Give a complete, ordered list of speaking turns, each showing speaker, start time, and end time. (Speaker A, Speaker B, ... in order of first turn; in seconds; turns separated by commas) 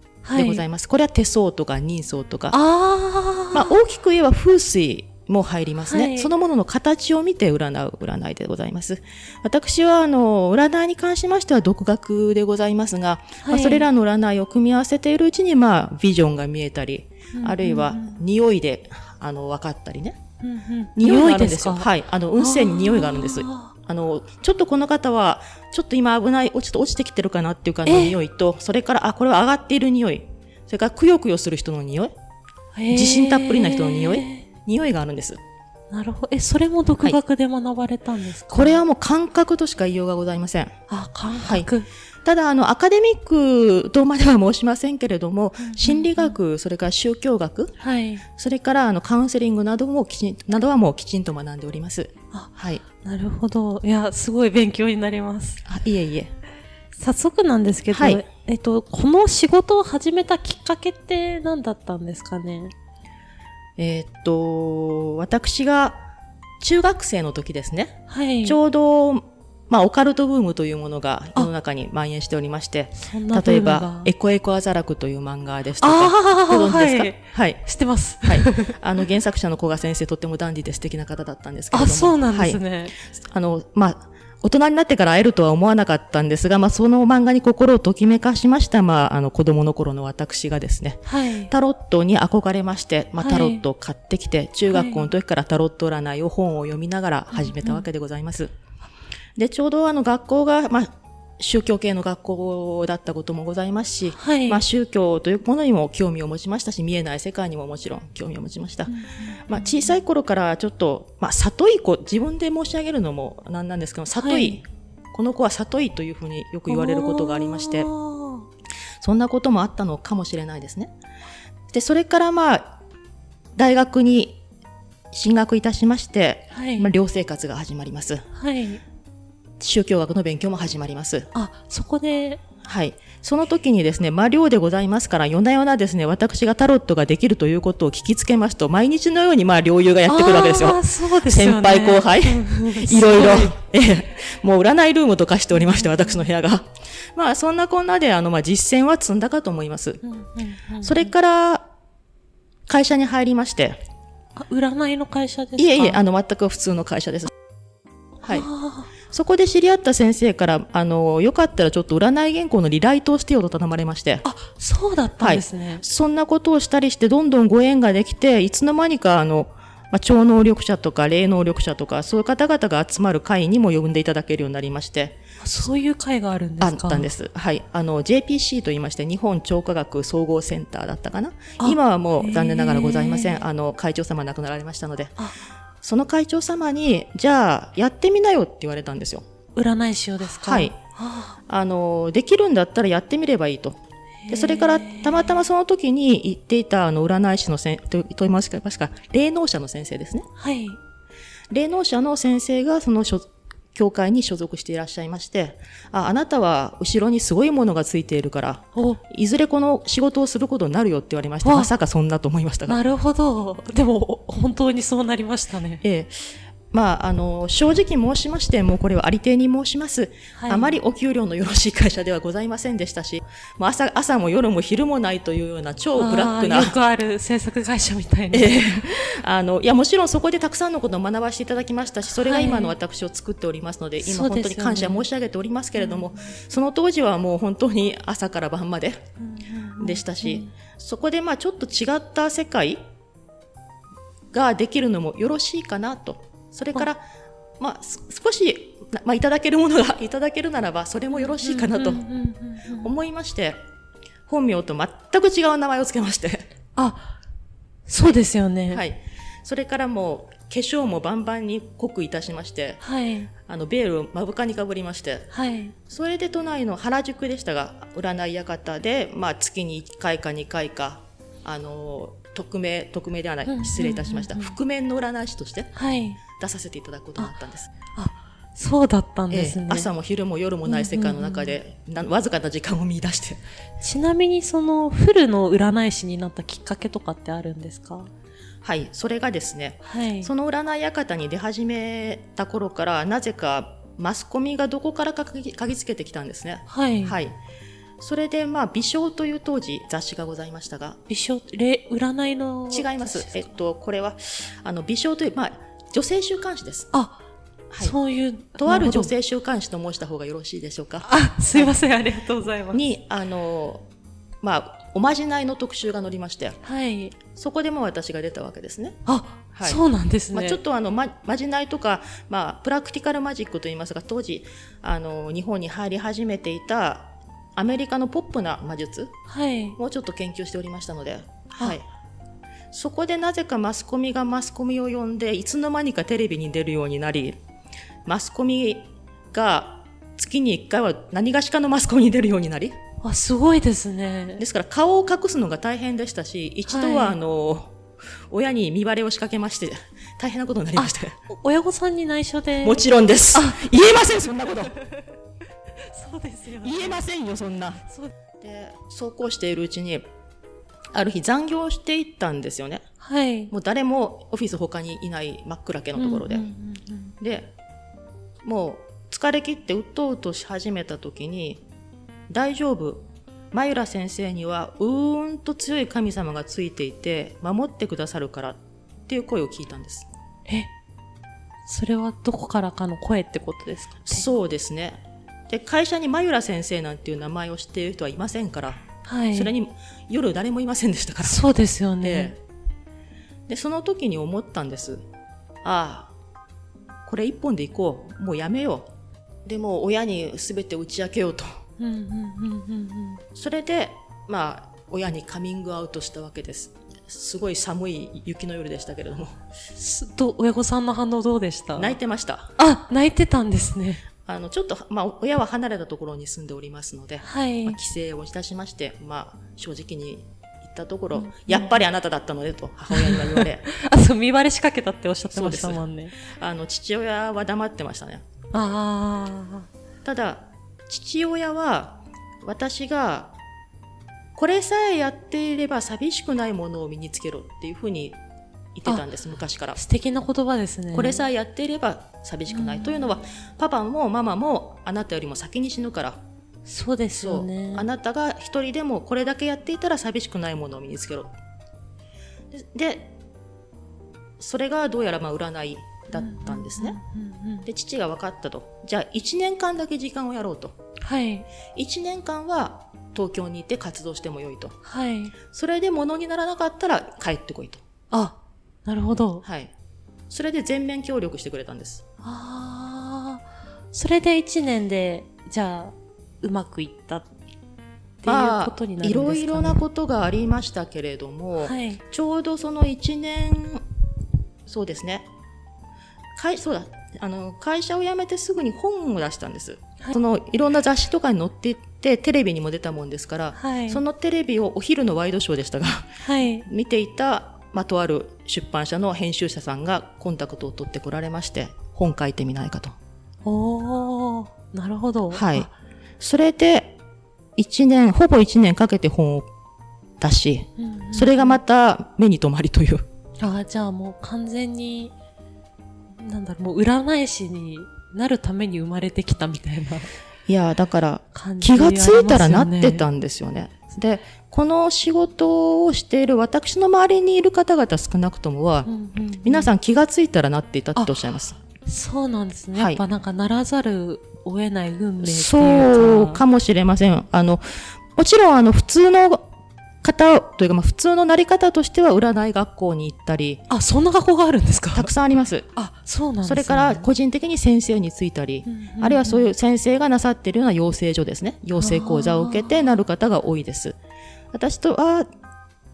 Speaker A: 0.2-0.6, Speaker B: 0.3-2.6, Speaker A: 2.5-3.7, Speaker B: 3.5-20.2, Speaker A: 5.9-6.3, Speaker A: 13.4-13.9, Speaker A: 17.3-18.2, Speaker A: 20.4-23.7, Speaker B: 21.0-32.1, Speaker A: 27.9-28.2, Speaker A: 32.8-34.5, Speaker B: 32.9-35.4, Speaker A: 35.9-38.8, Speaker B: 38.5-40.7, Speaker A: 40.9-41.9, Speaker B: 41.4-41.7, Speaker B: 42.2-47.7, Speaker A: 45.6-46.4, Speaker A: 47.8-48.2, Speaker B: 48.4-52.8, Speaker A: 52.3-55.6, Speaker B: 55.7-56.3, Speaker A: 57.0-62.7, Speaker B: 57.9-58.2, Speaker B: 63.8-66.0, Speaker B: 66.6-77.6, Speaker A: 68.1-68.6, Speaker A: 73.0-74.1, Speaker A: 75.8-78.8, Speaker B: 78.2-82.6, Speaker A: 81.7-83.0, Speaker B: 83.3-98.5, Speaker A: 91.1-91.5, Speaker A: 93.2-93.6, Speaker A: 94.7-95.1, Speaker A: 97.3-97.8, Speaker B: 99.4-108.9, Speaker A: 104.2-104.6, Speaker A: 108.9-110.0, Speaker B: 109.5-117.9, Speaker A: 114.2-114.6, Speaker A: 116.7-118.5, Speaker B: 119.0-120.9, Speaker B: 121.7-122.8, Speaker B: 123.6-124.4, Speaker B: 125.1-128.2, Speaker A: 126.5-126.9, Speaker A: 128.3-128.8, Speaker B: 129.6-131.3, Speaker A: 131.3-132.4, Speaker B: 132.7-150.0, Speaker A: 140.1-143.6, Speaker A: 145.5-146.3, Speaker A: 150.0-151.1, Speaker B: 150.8-151.7, Speaker B: 152.7-153.8, Speaker A: 154.4-156.0, Speaker B: 155.6-157.3, Speaker B: 158.2-158.5, Speaker A: 158.3-158.9, Speaker B: 159.1-164.2, Speaker A: 164.2-165.8, Speaker B: 165.2-175.2, Speaker A: 175.4-177.1, Speaker B: 176.6-185.2, Speaker A: 181.6-183.4, Speaker B: 185.8-189.2, Speaker A: 189.6-191.4, Speaker B: 190.3-190.8, Speaker B: 191.5-200.3, Speaker A: 194.2-195.4, Speaker A: 200.4-200.8, Speaker B: 201.5-212.8, Speaker A: 208.8-209.0, Speaker A: 211.4-211.7, Speaker A: 212.7-215.8, Speaker B: 215.8-216.2, Speaker B: 216.7-226.8, Speaker A: 220.3-220.8, Speaker A: 225.9-228.6, Speaker B: 228.3-239.0, Speaker A: 232.1-232.8, Speaker A: 234.0-235.1, Speaker A: 235.8-236.3, Speaker A: 239.2-240.5, Speaker B: 239.8-242.8, Speaker B: 244.3-247.0, Speaker B: 247.6-252.1, Speaker A: 251.2-252.9, Speaker B: 252.8-253.6, Speaker B: 254.3-256.4, Speaker A: 256.8-257.1, Speaker A: 257.9-258.8, Speaker B: 258.7-262.8, Speaker A: 262.8-263.3, Speaker B: 263.5-265.3, Speaker A: 265.3-265.7, Speaker B: 265.9-275.7, Speaker A: 273.5-274.6, Speaker A: 275.7-276.2, Speaker B: 276.4-277.7, Speaker A: 278.0-279.9, Speaker B: 279.3-283.4, Speaker A: 280.6-281.6, Speaker A: 283.8-288.1, Speaker B: 288.6-297.4, Speaker A: 289.9-290.3, Speaker A: 296.7-297.2, Speaker B: 298.0-301.0, Speaker A: 301.1-303.4, Speaker B: 302.7-306.9, Speaker A: 306.9-307.2, Speaker B: 307.7-308.0, Speaker A: 307.8-309.1, Speaker B: 308.6-311.9, Speaker A: 311.0-312.8, Speaker B: 312.7-313.9, Speaker B: 314.4-316.6, Speaker A: 316.6-317.2, Speaker B: 317.3-319.0, Speaker A: 319.1-320.6, Speaker B: 319.5-319.8, Speaker B: 320.3-329.1, Speaker A: 329.3-329.8, Speaker B: 329.8-331.9, Speaker B: 332.7-337.4, Speaker B: 338.1-342.8, Speaker A: 343.0-344.4, Speaker B: 344.4-347.8, Speaker A: 346.7-347.2, Speaker B: 348.3-351.2, Speaker A: 350.8-352.8, Speaker B: 352.6-354.7, Speaker A: 353.3-353.8, Speaker A: 354.6-355.0, Speaker A: 355.9-357.0, Speaker B: 356.6-357.8, Speaker B: 358.4-360.0, Speaker B: 360.9-362.8, Speaker A: 363.0-363.5, Speaker B: 363.5-366.5, Speaker A: 365.9-367.1, Speaker B: 367.2-367.5, Speaker B: 368.4-371.6, Speaker B: 372.3-380.1, Speaker A: 381.7-384.3, Speaker B: 384.1-388.8, Speaker A: 389.1-389.5, Speaker B: 389.3-392.4, Speaker A: 391.2-392.3, Speaker B: 393.5-395.0, Speaker B: 395.6-396.1, Speaker B: 397.1-398.9, Speaker B: 399.5-401.5, Speaker A: 401.8-403.2, Speaker B: 403.4-409.4, Speaker A: 409.8-412.0, Speaker B: 411.8-412.5, Speaker A: 412.6-414.0, Speaker B: 414.2-423.6, Speaker A: 417.2-417.8, Speaker A: 421.1-421.8, Speaker A: 422.9-426.1, Speaker B: 425.3-425.8, Speaker B: 426.4-428.2, Speaker A: 428.5-429.7, Speaker B: 430.1-433.4, Speaker B: 434.4-438.2, Speaker B: 438.8-439.8, Speaker A: 439.8-441.2, Speaker B: 440.9-446.2, Speaker A: 442.5-443.1, Speaker A: 446.7-447.9, Speaker B: 447.2-451.3, Speaker B: 452.5-453.1, Speaker B: 454.4-457.0, Speaker A: 456.1-457.7, Speaker B: 457.7-460.8, Speaker A: 461.0-461.5, Speaker B: 461.8-464.8, Speaker A: 464.9-465.4, Speaker B: 465.5-467.8, Speaker A: 468.1-469.4, Speaker B: 469.4-469.7, Speaker B: 470.3-472.0, Speaker A: 472.2-477.3, Speaker A: 478.2-479.9, Speaker B: 478.3-483.8, Speaker A: 481.6-482.0, Speaker B: 484.7-485.3, Speaker B: 486.4-496.1, Speaker A: 493.6-494.0, Speaker A: 496.2-496.7, Speaker B: 496.7-503.0, Speaker A: 503.4-505.7, Speaker B: 505.3-505.7, Speaker B: 506.2-507.0, Speaker B: 507.6-509.5, Speaker B: 510.2-513.1, Speaker A: 510.8-511.6, Speaker A: 513.4-515.1, Speaker A: 516.2-520.1, Speaker B: 520.5-528.9, Speaker A: 521.3-523.1, Speaker A: 528.9-529.7, Speaker B: 529.4-531.6, Speaker A: 531.0-531.2, Speaker A: 531.8-536.4, Speaker B: 532.8-533.0, Speaker B: 535.2-537.6, Speaker B: 538.2-539.5, Speaker B: 540.0-543.6, Speaker A: 543.7-545.1, Speaker B: 544.9-545.7, Speaker A: 545.8-547.1, Speaker B: 546.4-554.0, Speaker A: 548.7-549.5, Speaker A: 551.8-553.0, Speaker B: 554.5-555.3